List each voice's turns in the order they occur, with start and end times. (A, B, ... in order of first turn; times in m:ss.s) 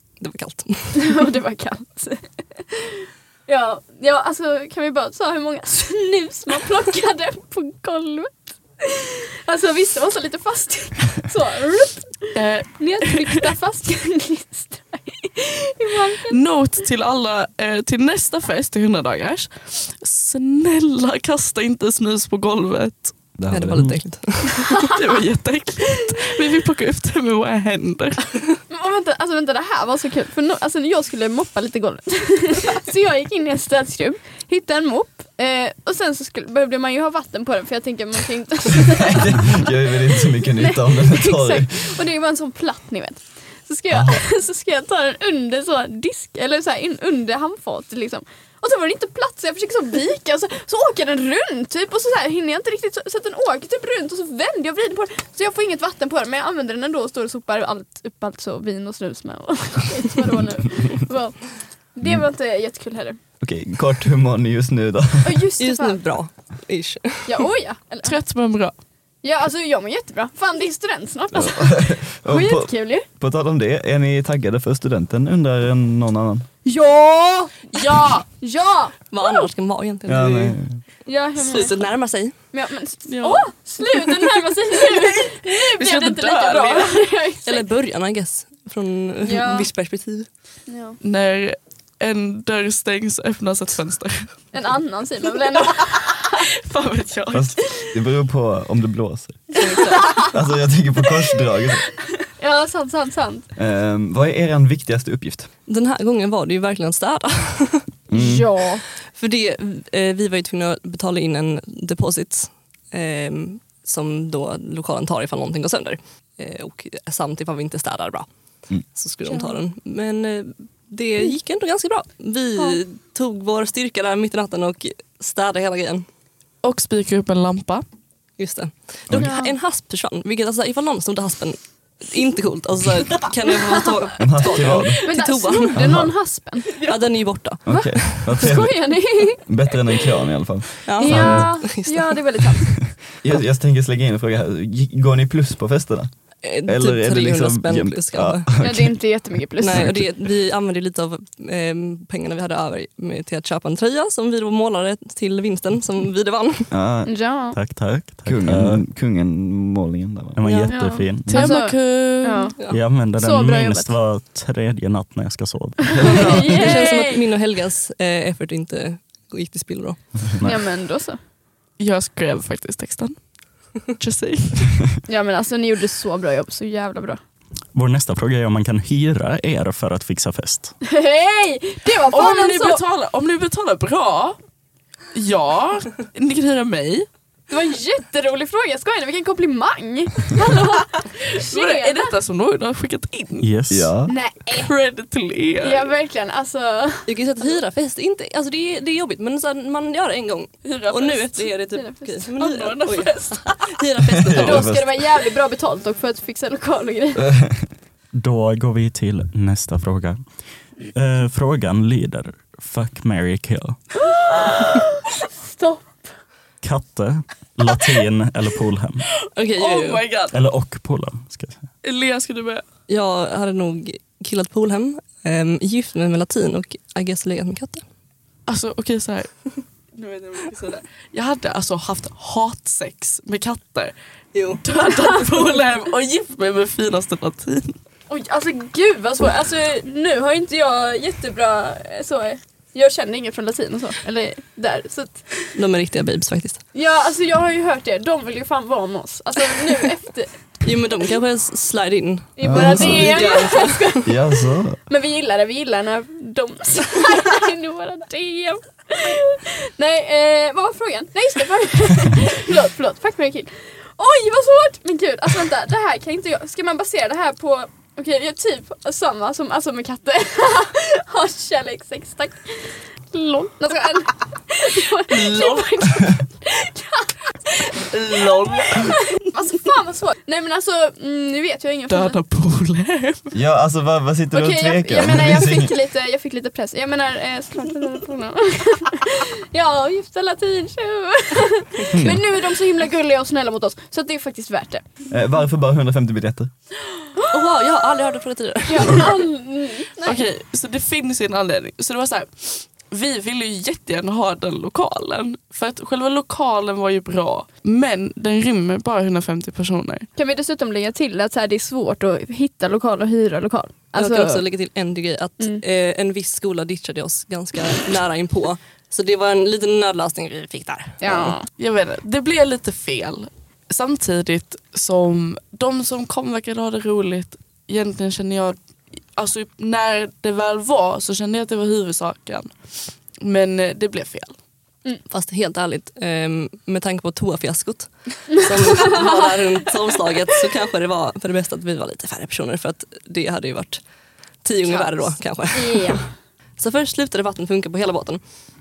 0:00.2-0:01.2 A
0:01.0-0:16.4 B
0:12.4-0:13.4 C
0:16.3-0:23.1 C
0:23.4-0:23.9 D
0:23.5-0:24.9 A
0:24.7-0:28.4 C
0:28.7-0:39.5 B
0:38.8-0:41.9 D
0:40.6-1:03.2 B
0:43.9-0:44.2 D
1:03.4-1:05.4 D
1:05.2-1:06.0 B
1:05.6-1:07.4 A
1:07.3-1:08.2 B
1:08.0-1:08.7 C
1:09.2-1:13.1 B
1:11.3-1:16.5 D
1:16.6-1:19.5 B
1:17.7-1:18.3 C
1:19.1-1:20.6 A
1:20.1-1:20.8 D
1:21.1-1:21.8 B
1:21.4-1:22.3 A
1:22.5-1:27.7 B
1:23.1-1:23.5 C
1:24.9-1:27.0 C
1:27.4-1:30.3 A
1:29.3-1:29.7 B
1:30.7-1:31.0 B
1:31.0-1:34.4 C
1:34.5-1:36.4 B
1:36.4-1:37.6 C
1:37.3-1:39.5 D
1:39.6-1:40.2 A
1:39.7-1:40.3 B
1:40.2-1:41.8 D
1:42.4-1:43.5 B
1:43.6-1:45.5 D
1:45.7-1:47.9 A
1:48.1-1:48.5 D
1:48.1-1:48.8 B
1:49.1-1:58.3 A
1:59.0-2:06.0 A
1:59.3-1:59.6 B
2:06.6-2:07.8 C
2:08.4-2:15.8 A
2:09.2-2:09.5 B
2:14.2-2:15.0 D
2:15.0-2:16.9 B
2:15.7-2:16.1 D
2:16.8-2:18.5 A
2:17.6-2:21.5 D
2:17.7-2:19.5 B
2:20.8-2:22.2 A
2:21.0-2:22.8 B
2:23.2-2:26.1 D
2:26.4-2:28.6 A
2:26.6-2:29.0 D
2:28.6-2:30.0 B
2:29.6-2:36.7 A
2:36.7-2:37.1 D
2:37.1-2:37.6 B
2:37.5-2:38.8 E
2:38.3-2:40.4 D
2:40.4-2:41.5 E
2:40.6-2:42.6 B
2:41.3-2:42.6 C
2:42.7-2:46.5 E
2:43.2-2:43.9 B
2:46.0-2:46.5 D
2:46.0-2:47.2 B
2:46.0-2:50.0 A
2:50.4-2:51.2 B
2:51.8-2:53.2 C
2:53.8-2:54.9 C
2:55.1-2:57.2 B
2:57.7-3:00.8 E
3:00.8-3:02.8 B
3:02.1-3:04.4 C
3:05.1-3:07.1 C
3:07.5-3:12.1 B
3:11.3-3:13.5 C
3:13.4-3:13.9 E
3:13.7-3:14.1 D
3:14.1-3:14.7 B
3:14.6-3:15.9 C
3:15.6-3:17.1 B
3:17.1-3:24.8 A
3:20.6-3:21.5 C
3:21.7-3:22.2 B
3:22.4-3:23.6 C
3:24.2-3:24.9 D
3:24.3-3:27.3 B
3:27.2-3:27.7 D
3:28.1-3:30.2 E
3:30.9-3:33.8 E
3:34.1-3:36.1 B
3:36.6-3:39.0 E
3:39.4-3:40.0 A
3:39.6-3:40.4 C
3:40.3-3:41.7 E
3:41.8-3:42.6 C
3:42.9-3:47.8 A
3:48.5-3:53.9 C
3:54.3-3:54.6 A
3:54.6-3:57.8 C
3:58.1-4:05.3 B
4:05.6-4:06.6 A
4:06.7-4:10.3 B
4:10.6-4:14.0 A
4:12.4-4:14.2 B
4:12.4-4:13.2 D
4:14.0-4:14.8 D
4:14.9-4:37.9 B
4:35.1-4:36.0 C
4:37.8-4:39.0 C
4:38.6-4:42.2 B
4:41.9-4:43.3 C
4:43.3-4:45.7 D
4:44.3-4:54.8 B
4:51.9-4:52.2 D
4:55.1-4:56.5 D
4:57.3-4:59.2 A
4:58.7-5:00.2 B
5:00.0-5:10.1 C
5:10.2-5:14.4 B
5:14.0-5:21.4 A
5:21.0-5:21.5 B
5:21.5-5:28.6 C
5:29.2-5:32.6 C
5:33.1-5:34.4 C
5:35.1-5:43.8 A
5:38.6-5:39.3 B
5:44.4-5:46.0 A
5:44.7-5:46.1 B
5:46.6-5:48.2 A